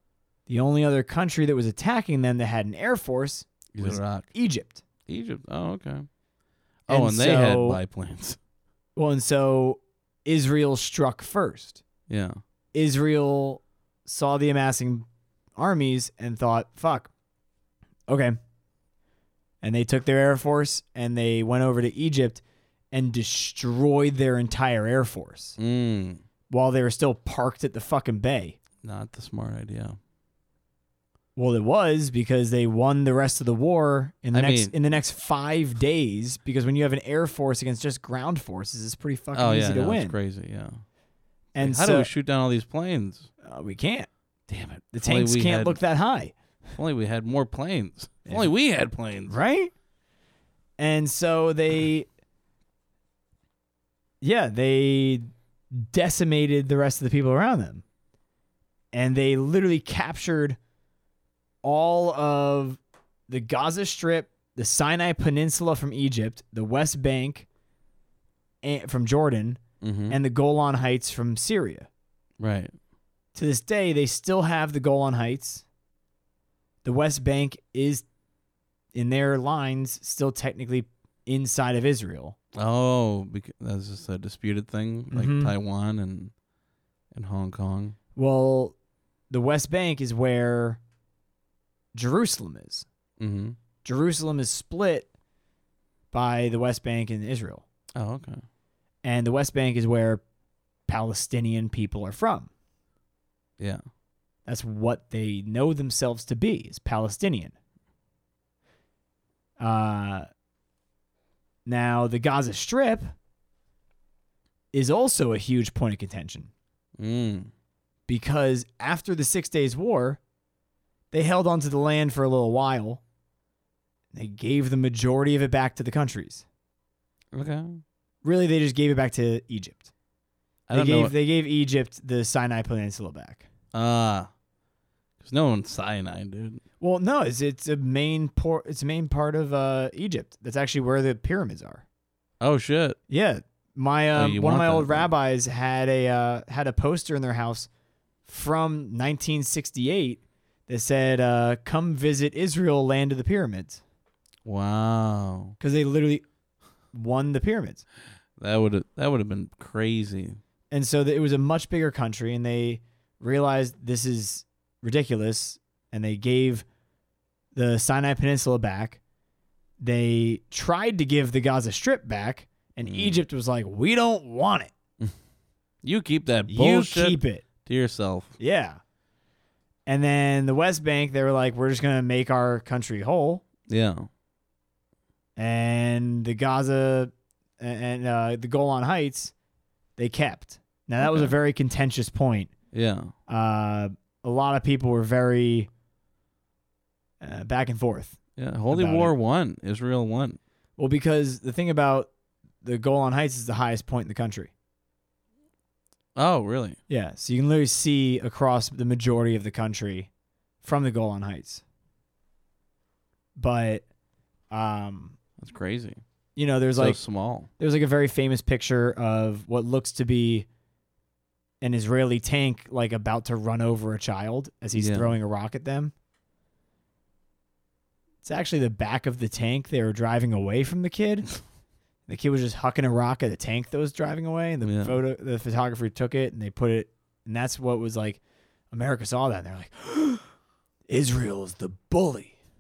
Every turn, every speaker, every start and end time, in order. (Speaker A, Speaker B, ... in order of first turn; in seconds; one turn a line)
Speaker A: 0.5-4.8
Speaker B: 3.7-4.3
Speaker B: 5.1-6.1
Speaker B: 6.9-8.4
Speaker A: 6.9-7.8
Speaker A: 9.0-11.8
Speaker B: 12.1-12.4
Speaker A: 12.7-17.1
Speaker A: 18.1-18.4
Speaker A: 19.6-25.6
Speaker B: 25.6-26.2
Speaker A: 26.5-28.6
Speaker B: 28.8-30.0
Speaker A: 31.4-40.2
Speaker B: 34.3-34.7
Speaker B: 39.3-40.8
Speaker A: 41.5-42.1
Speaker B: 41.6-43.3
Speaker A: 43.4-44.1
Speaker B: 44.5-45.8
Speaker A: 44.9-46.4
Speaker B: 46.8-49.4
Speaker A: 48.3-48.5
Speaker A: 49.3-49.7
Speaker A: 50.8-52.1
Speaker A: 54.2-57.8
Speaker A: 58.9-60.6
Speaker A: 61.6-67.5
Speaker A: 68.6-71.9
Speaker B: 69.8-70.2
Speaker B: 72.4-72.7
Speaker A: 73.3-75.6
Speaker A: 76.8-78.0
Speaker A: 78.9-82.4
Speaker B: 82.5-86.3
Speaker A: 85.1-85.5
Speaker B: 87.1-88.0
Speaker A: 88.2-88.8
Speaker A: 89.3-90.8
Speaker A: 91.9-92.9
Speaker B: 93.2-93.6
Speaker A: 93.8-95.1
Speaker A: 96.1-97.6
Speaker B: 98.0-98.4
Speaker A: 99.0-100.2
Speaker A: 100.9-102.5
Speaker A: 104.5-107.5
Speaker A: 109.6-110.3
Speaker A: 111.7-113.1
Speaker A: 114.7-116.5
Speaker B: 117.0-117.5
Speaker A: 118.1-120.2
Speaker A: 121.1-123.0
Speaker A: 124.1-126.5
Speaker B: 127.3-127.8
Speaker A: 128.2-129.9
Speaker B: 130.7-131.1
Speaker A: 130.7-133.5
Speaker B: 133.7-134.3
Speaker B: 135.2-136.6
Speaker A: 136.8-141.8
Speaker B: 142.4-143.0
Speaker A: 143.1-147.7
Speaker B: 144.2-145.1
Speaker A: 148.3-153.8
Speaker B: 154.4-155.6
Speaker A: 155.6-156.2
Speaker A: 156.9-157.8
Speaker B: 158.4-160.4
Speaker A: 160.7-166.7
Speaker A: 167.6-169.0
Speaker A: 169.8-174.7
Speaker B: 172.8-173.2
Speaker B: 175.8-178.4
Speaker A: 176.5-177.4
Speaker A: 178.4-178.8
Speaker A: 179.9-183.4
Speaker B: 183.7-184.1
Speaker A: 185.4-189.3
Speaker A: 190.0-192.5
Speaker B: 191.0-191.3
Speaker B: 192.7-193.1
Speaker A: 193.3-195.7
Speaker A: 197.2-198.2
Speaker B: 198.4-200.4
Speaker A: 198.7-199.1
Speaker A: 200.8-202.1
Speaker A: 202.6-204.5
Speaker B: 206.2-206.8
Speaker A: 206.9-210.1
Speaker A: 210.6-211.6
Speaker A: 213.4-213.8
Speaker A: 214.5-215.2
Speaker B: 215.4-216.0
Speaker A: 216.4-217.0
Speaker B: 216.8-217.5
Speaker A: 217.6-220.5
Speaker A: 221.6-225.9
Speaker B: 224.8-225.2
Speaker A: 228.2-231.3
Speaker A: 232.1-238.2
Speaker B: 234.6-235.0
Speaker A: 238.7-240.2
Speaker A: 240.9-242.4